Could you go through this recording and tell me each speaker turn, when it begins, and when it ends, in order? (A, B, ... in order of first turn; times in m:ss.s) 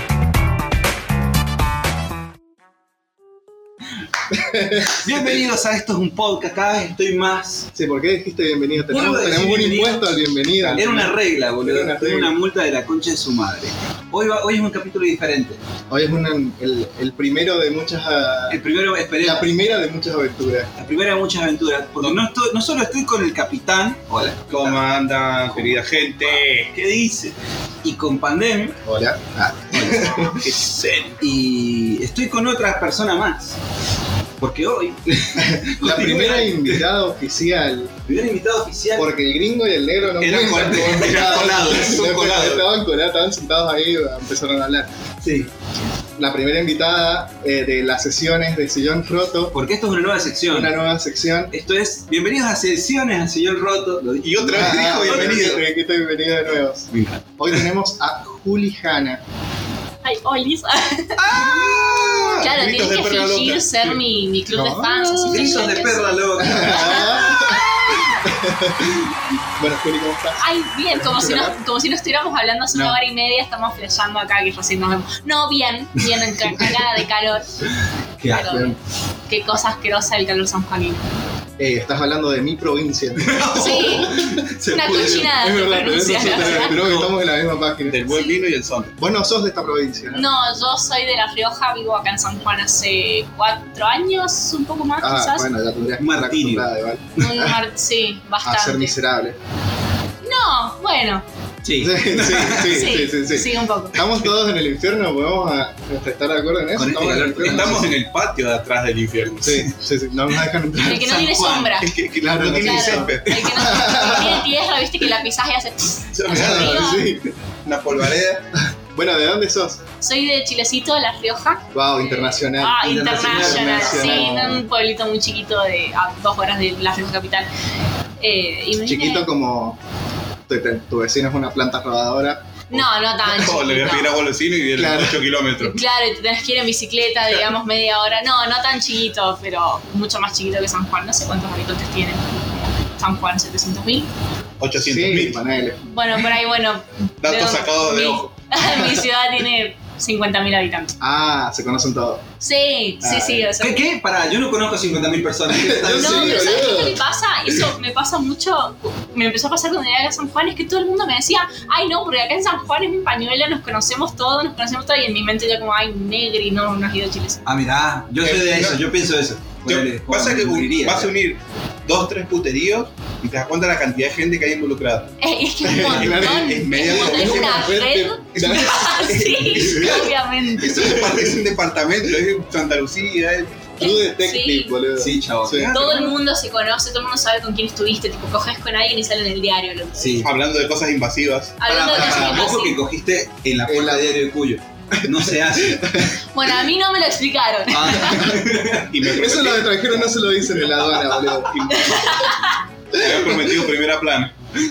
0:04.3-0:05.0 A
0:04.9-0:07.7 B
0:07.7-0:12.3 A
0:08.9-0:15.6 B
0:10.6-0:11.0 C
0:15.9-0:18.6 A
0:18.5-0:19.5 B
0:19.2-0:20.7 A
0:20.8-0:24.9 B
0:24.5-0:26.7 C
0:25.4-0:25.8 B
0:26.7-0:28.8 B
0:28.8-0:30.4 A
0:29.7-0:30.2 B
0:30.2-0:31.2 C
0:31.2-0:33.6 B
0:34.4-0:36.8 B
0:35.4-0:37.9 A
0:38.0-0:39.1 B
0:39.0-0:44.9 A
0:40.1-0:42.7 B
0:45.2-0:45.5 B
0:46.2-0:49.6 A
0:49.5-0:50.7 B
0:50.5-0:51.5 A
0:51.5-0:55.6 B
0:54.2-0:55.6 C
0:54.4-0:59.2 A
0:56.9-0:57.5 B
1:00.0-1:01.8 D
1:01.2-1:04.0 C
1:01.4-1:02.2 B
1:02.4-1:08.2 D
1:04.5-1:05.5 A
1:05.2-1:07.6 B
1:06.4-1:11.6 A
1:10.4-1:17.6 D
1:12.7-1:13.0 A
1:18.2-1:18.7 B
1:18.2-1:21.0 D
1:21.6-1:24.1 A
1:23.2-1:27.1 B
1:23.5-1:26.8 D
1:25.4-1:28.2 A
1:27.9-1:29.0 C
1:29.0-1:30.2 A
1:30.1-1:35.5 D
1:35.0-1:37.6 A
1:36.0-1:36.7 B
1:37.2-1:38.9 D
1:38.4-1:39.4 A
1:40.2-1:41.2 D
1:41.6-1:43.0 B
1:41.8-1:47.8 A
1:42.7-1:44.0 D
1:46.7-1:48.0 B
1:47.4-1:49.6 C
1:49.4-1:51.3 A
1:50.8-1:51.8 B
1:50.8-1:51.9 D
1:51.8-1:53.9 C
1:52.2-1:54.5 A
1:52.5-1:57.1 D
1:56.1-1:57.1 C
1:56.3-1:57.3 A
1:57.6-1:58.5 C
1:58.6-1:59.8 A
2:00.0-2:07.5 D
2:01.7-2:04.6 A
2:02.8-2:04.5 B
2:08.2-2:09.3 D
2:08.8-2:09.8 A
2:10.5-2:12.4 A
2:12.7-2:14.2 D
2:12.7-2:15.8 C
2:14.7-2:15.2 A
2:15.6-2:24.1 D
2:24.6-2:25.4 C
2:24.7-2:25.8 A
2:25.9-2:31.0 D
2:27.2-2:28.3 C
2:28.6-2:29.0 A
2:31.0-2:32.2 A
2:32.4-2:33.8 D
2:33.0-2:33.5 A
2:33.6-2:36.7 B
2:35.5-2:37.0 A
2:35.9-2:47.4 D
2:47.4-2:51.1 B
2:48.2-2:48.9 C
2:49.6-2:55.1 C
2:55.2-3:01.0 D
2:55.6-3:00.0 A
2:55.7-2:57.7 C
2:59.3-3:00.0 B
3:00.6-3:03.7 C
3:00.8-3:01.3 A
3:03.8-3:05.8 A
3:03.8-3:04.7 D
3:05.0-3:06.1 B
3:05.7-3:10.3 D
3:10.0-3:10.3 B
3:10.2-3:11.6 C
3:11.6-3:12.8 D
3:11.6-3:16.1 B
3:13.7-3:14.2 A
3:15.0-3:16.1 A
3:16.3-3:18.4 D
3:17.7-3:18.9 B
3:18.9-3:20.1 C
3:19.0-3:21.7 A
3:21.4-3:22.4 C
3:21.7-3:22.6 D
3:22.9-3:24.3 C
3:22.9-3:23.6 A